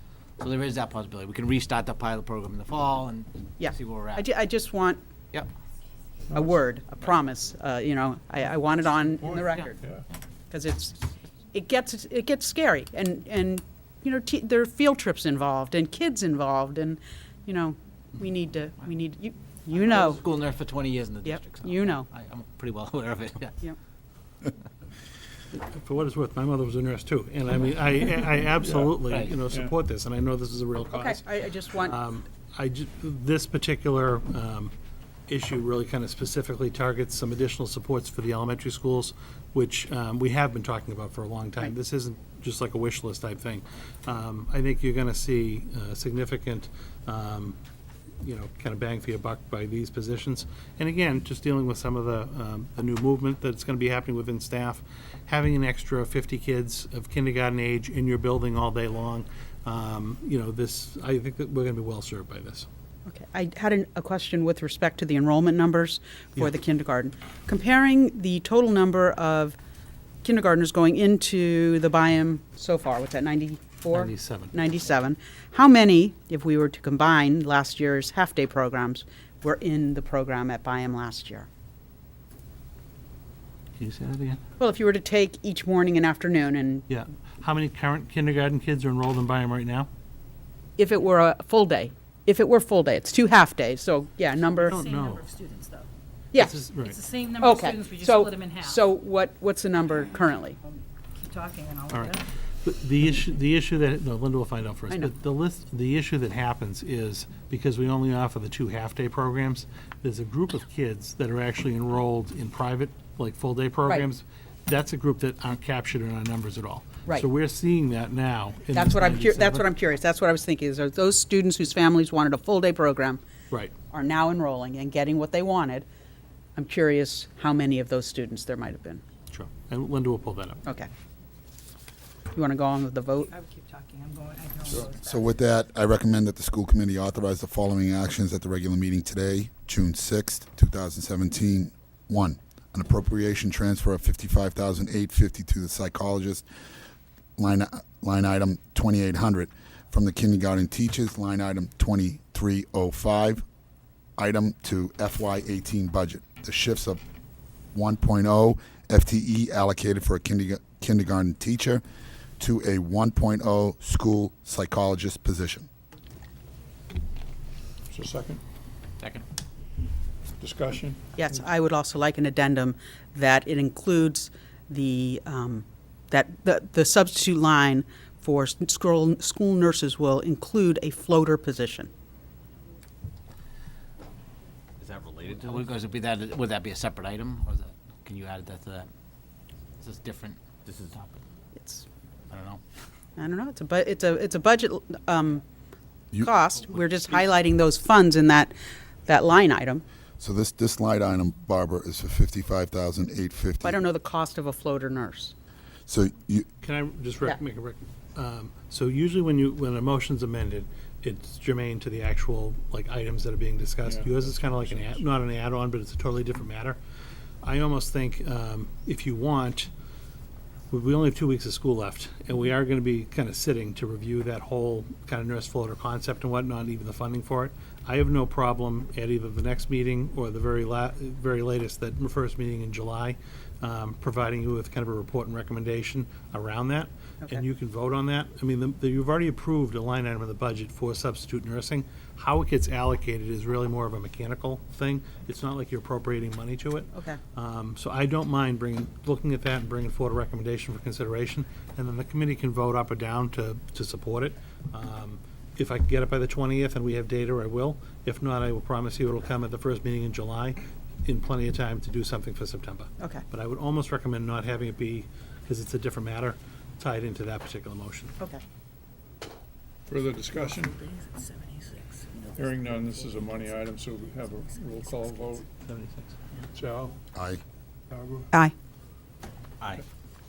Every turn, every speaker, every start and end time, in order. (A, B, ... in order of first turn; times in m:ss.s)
0:00.4-0:04.2 A
0:03.6-0:05.0 B
0:06.3-0:09.8 B
0:09.3-0:10.0 C
0:10.5-0:11.0 B
0:11.5-0:20.2 B
0:19.7-0:23.6 A
0:21.2-0:22.1 B
0:25.6-0:34.7 D
0:28.6-0:29.7 C
0:29.1-0:29.4 A
0:30.9-0:32.0 B
0:35.3-0:47.6 D
0:48.2-1:02.7 D
1:03.1-1:09.6 B
1:10.2-1:21.5 B
1:13.9-1:14.6 D
1:23.8-1:24.4 D
1:24.6-1:26.9 B
1:26.9-1:29.9 D
1:30.8-1:34.8 B
1:34.6-1:35.3 D
1:34.7-1:35.9 E
1:36.3-1:36.6 B
1:36.4-1:37.0 D
1:36.9-1:38.8 E
1:37.4-1:40.6 B
1:41.2-1:42.2 E
1:41.9-1:59.7 D
1:58.7-2:03.2 B
2:03.9-2:05.8 B
2:06.6-2:09.0 B
2:09.3-2:10.6 D
2:12.3-2:13.3 B
2:13.3-2:15.2 E
2:14.7-2:26.4 F
2:27.4-2:33.4 F
2:34.2-2:37.0 F
2:37.7-2:41.8 F
2:42.4-2:45.7 F
2:47.9-2:48.4 C
2:50.4-2:51.0 C
2:51.2-3:01.9 B
3:04.8-3:08.9 A
3:09.8-3:11.1 A
3:11.6-3:11.8 B
3:12.3-3:12.6 A
3:13.2-3:15.4 B
3:16.2-3:18.5 B
3:19.1-3:19.8 B
3:20.2-3:23.8 F
3:23.6-3:25.3 B
3:25.9-3:26.5 F
3:26.6-3:36.8 D
3:33.8-3:35.0 C
3:37.4-3:39.7 D
3:40.7-4:28.2 D
4:06.9-4:07.2 B
4:23.0-4:23.2 B
4:29.9-4:30.8 C
4:32.3-4:35.5 C
4:35.6-4:36.1 D
4:36.5-4:37.0 C
4:37.1-4:37.4 F
4:37.9-4:38.3 C